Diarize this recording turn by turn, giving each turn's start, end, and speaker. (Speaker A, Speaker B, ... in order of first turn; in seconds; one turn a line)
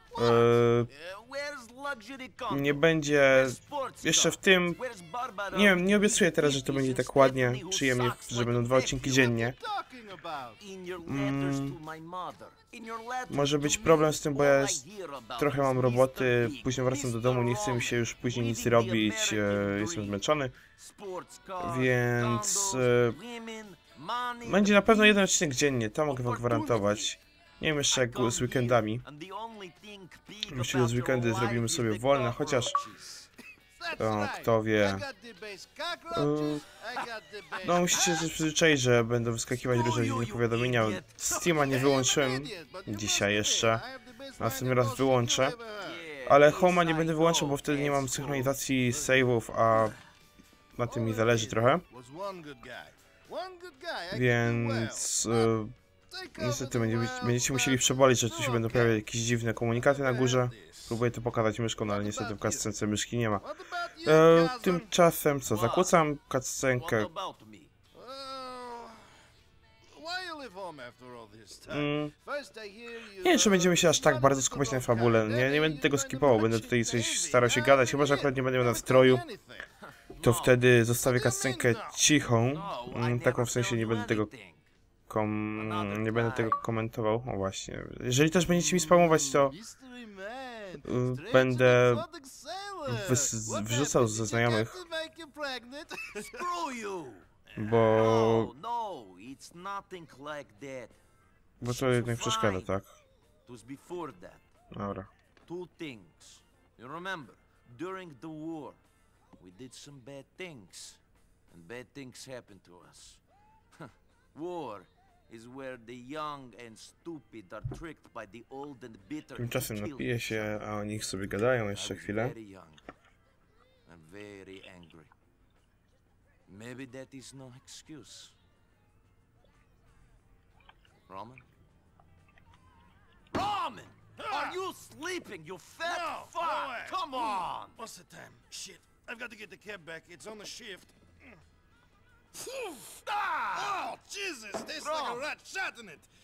Speaker A: 0.1-0.9
Speaker B: 0.9-9.3
Speaker A: 2.5-4.8
Speaker A: 5.5-9.6
Speaker C: 9.0-10.6
Speaker B: 10.6-20.2
Speaker A: 11.1-11.8
Speaker A: 13.3-14.8
Speaker A: 15.4-20.6
Speaker B: 20.8-25.3
Speaker A: 21.6-23.2
Speaker A: 24.4-29.1
Speaker B: 26.1-27.2
Speaker B: 27.9-33.3
Speaker A: 30.5-32.8
Speaker C: 33.8-38.2
Speaker A: 34.0-35.0
Speaker A: 36.1-36.6
Speaker A: 37.6-43.8
Speaker B: 39.7-41.6
Speaker C: 41.4-46.1
Speaker A: 44.4-45.6
Speaker B: 45.8-49.1
Speaker A: 46.2-50.0
Speaker A: 50.7-51.9
Speaker C: 50.8-55.5
Speaker A: 54.1-55.7
Speaker C: 56.1-59.0
Speaker A: 56.4-63.4
Speaker C: 59.7-61.0
Speaker C: 61.9-62.7
Speaker C: 63.4-64.9
Speaker A: 64.0-67.1
Speaker B: 65.5-66.0
Speaker B: 66.7-67.7
Speaker C: 67.9-69.1
Speaker C: 69.9-79.7
Speaker A: 71.7-72.1
Speaker A: 73.2-79.2
Speaker B: 79.8-80.6
Speaker A: 80.2-84.3
Speaker C: 81.0-82.0
Speaker B: 82.5-84.7
Speaker A: 85.1-89.5
Speaker B: 85.6-86.6
Speaker C: 88.5-96.5
Speaker A: 90.8-92.1
Speaker A: 92.8-94.8
Speaker B: 96.2-97.3
Speaker C: 97.5-98.3
Speaker A: 97.6-98.5
Speaker B: 97.9-101.0
Speaker A: 101.6-102.9
Speaker B: 101.6-102.7
Speaker B: 103.5-104.4
Speaker A: 104.7-105.1
Speaker B: 105.5-108.8
Speaker B: 109.4-113.2
Speaker B: 113.8-120.5
Speaker A: 119.4-122.3
Speaker B: 121.7-122.8
Speaker B: 123.9-125.1
Speaker B: 126.5-128.3
Speaker B: 131.1-131.4
Speaker B: 133.3-137.8
Speaker C: 134.2-134.6
Speaker C: 135.8-141.3
Speaker C: 142.3-146.1
Speaker B: 143.1-143.8
Speaker B: 144.8-145.3